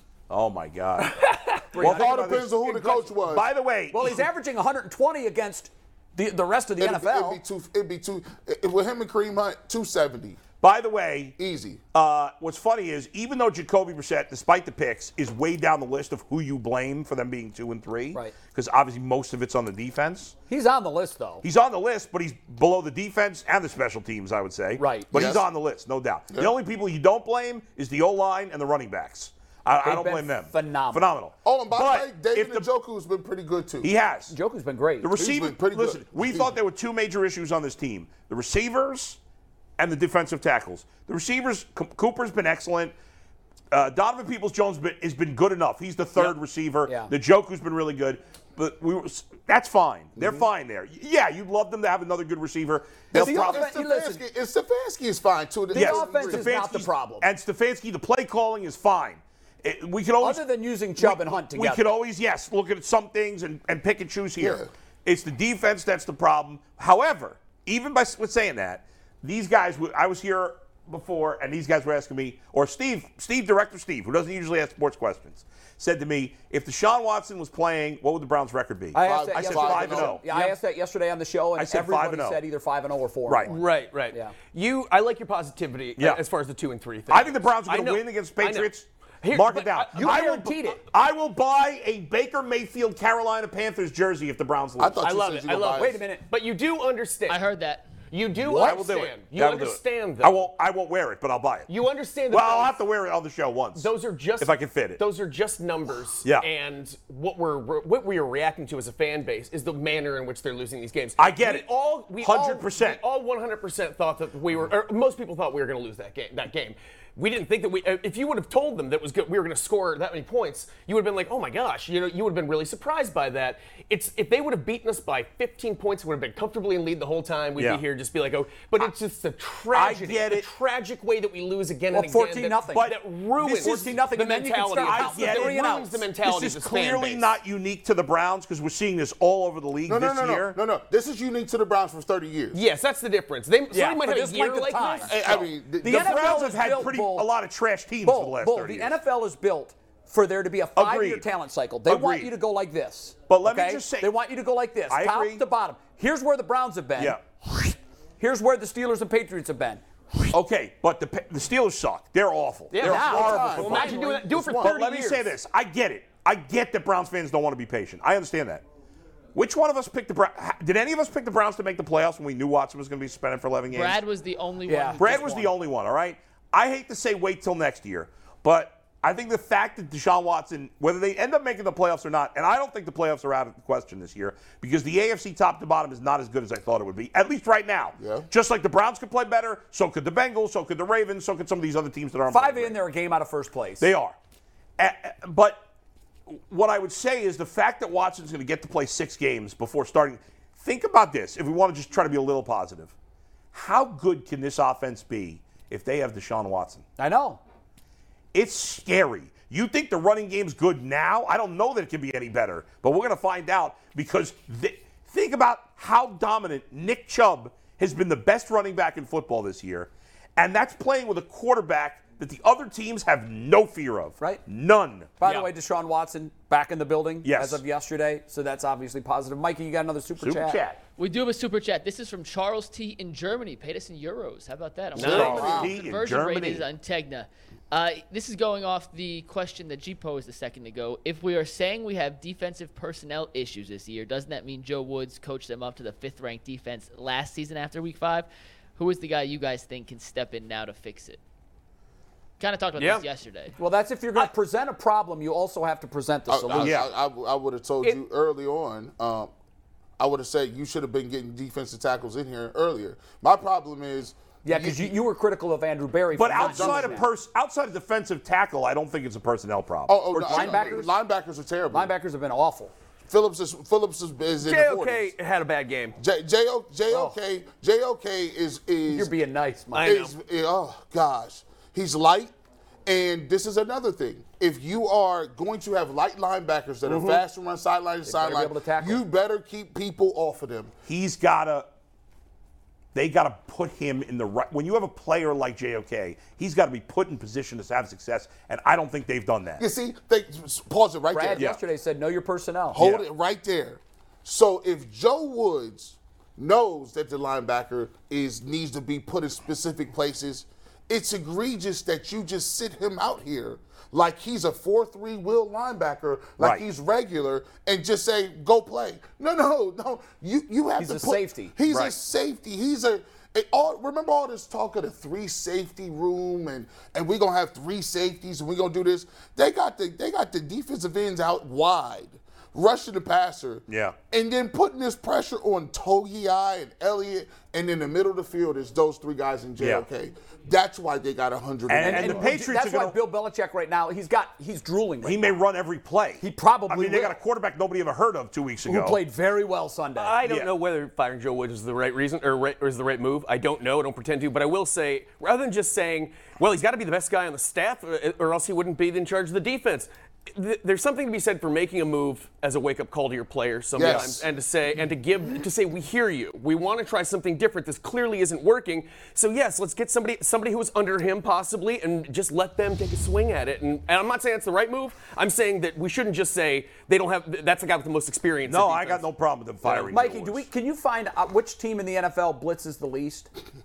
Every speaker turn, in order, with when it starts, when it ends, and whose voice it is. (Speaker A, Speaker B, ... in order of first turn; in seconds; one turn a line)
Speaker A: 0.3-4.2
Speaker B: 1.7-2.4
Speaker C: 1.8-3.5
Speaker B: 3.9-7.4
Speaker C: 6.8-10.4
Speaker A: 10.6-11.3
Speaker C: 11.4-11.8
Speaker A: 11.9-20.3
Speaker B: 20.5-21.4
Speaker A: 21.4-32.7
Speaker B: 24.8-25.1
Speaker C: 25.1-25.4
Speaker B: 29.8-31.1
Speaker C: 31.4-33.9
Speaker A: 33.8-34.3
Speaker B: 34.3-35.1
Speaker A: 35.0-39.2
Speaker C: 35.1-36.5
Speaker A: 39.8-42.9
Speaker A: 43.7-53.7
Speaker B: 46.1-47.1
Speaker C: 50.2-50.5
Speaker B: 53.1-54.2
Speaker C: 53.1-56.6
Speaker B: 55.7-57.3
Speaker A: 55.7-60.4
Speaker B: 60.2-61.8
Speaker A: 61.0-80.5
Speaker C: 64.4-64.7
Speaker B: 78.9-84.3
Speaker C: 79.0-80.2
Speaker A: 81.5-82.4
Speaker D: 83.5-88.7
Speaker A: 87.1-95.0
Speaker D: 89.2-90.2
Speaker B: 89.9-90.8
Speaker C: 94.8-96.0
Speaker B: 95.0-96.2
Speaker D: 95.2-97.4
Speaker E: 97.3-97.9
Speaker D: 98.1-100.4
Speaker B: 98.4-98.8
Speaker A: 98.4-101.7
Speaker D: 101.7-102.8
Speaker A: 102.3-105.0
Speaker D: 103.7-137.3
Speaker A: 111.2-113.0
Speaker A: 127.6-127.8
Speaker A: 129.7-130.4
Speaker B: 131.9-132.9
Speaker A: 132.7-134.1
Speaker B: 133.5-136.0
Speaker A: 134.8-140.6
Speaker C: 139.8-142.6
Speaker D: 142.5-145.4
Speaker B: 143.7-145.2
Speaker C: 145.0-146.4
Speaker A: 145.8-149.0
Speaker B: 145.8-147.3
Speaker B: 148.0-160.3
Speaker A: 150.8-151.2
Speaker A: 151.8-152.3
Speaker A: 153.3-154.1
Speaker A: 154.9-155.4
Speaker A: 156.9-157.2
Speaker A: 160.3-163.9
Speaker D: 162.7-165.2
Speaker B: 162.8-164.3
Speaker C: 162.8-164.7
Speaker A: 164.5-168.6
Speaker A: 169.3-174.0
Speaker E: 173.7-175.6
Speaker B: 174.7-175.2
Speaker A: 175.0-192.8
Speaker C: 188.0-188.3
Speaker B: 192.3-193.9
Speaker A: 193.8-194.2
Speaker A: 194.8-195.6
Speaker A: 196.3-202.9
Speaker A: 203.5-206.8
Speaker B: 207.0-207.4
Speaker A: 208.3-225.2
Speaker B: 225.2-230.6
Speaker D: 225.2-225.5
Speaker A: 227.2-227.6
Speaker A: 230.2-230.8
Speaker E: 231.0-251.2
Speaker D: 234.9-235.6
Speaker A: 234.9-236.6
Speaker B: 235.0-235.7
Speaker E: 252.4-253.5
Speaker D: 252.8-253.0
Speaker B: 253.6-256.8
Speaker C: 256.3-259.3
Speaker A: 256.5-256.9
Speaker C: 260.0-264.9
Speaker B: 264.4-267.1
Speaker A: 266.1-270.9
Speaker C: 266.4-267.1
Speaker C: 269.9-271.9
Speaker B: 270.2-270.9
Speaker B: 271.7-272.7
Speaker C: 273.1-275.1
Speaker D: 274.4-276.0
Speaker C: 275.9-279.1
Speaker B: 276.9-277.1
Speaker B: 278.9-279.9
Speaker D: 279.7-280.1
Speaker C: 279.8-282.3
Speaker C: 282.9-290.7
Speaker D: 286.9-287.2
Speaker B: 288.1-289.0
Speaker A: 290.9-291.7
Speaker A: 292.9-299.6
Speaker C: 299.6-301.6
Speaker B: 301.1-302.8
Speaker C: 302.7-342.3
Speaker A: 302.8-303.0
Speaker A: 316.4-316.6
Speaker B: 320.8-321.6
Speaker A: 321.6-321.9
Speaker A: 333.7-333.9
Speaker A: 339.6-339.8
Speaker A: 341.7-343.0
Speaker B: 341.8-345.4
Speaker A: 345.0-349.0
Speaker B: 346.2-347.2
Speaker B: 348.6-350.2
Speaker D: 349.9-379.0
Speaker A: 350.2-350.5
Speaker C: 363.7-364.2
Speaker A: 363.8-364.2
Speaker A: 378.4-380.4
Speaker D: 379.6-379.9
Speaker B: 379.9-383.3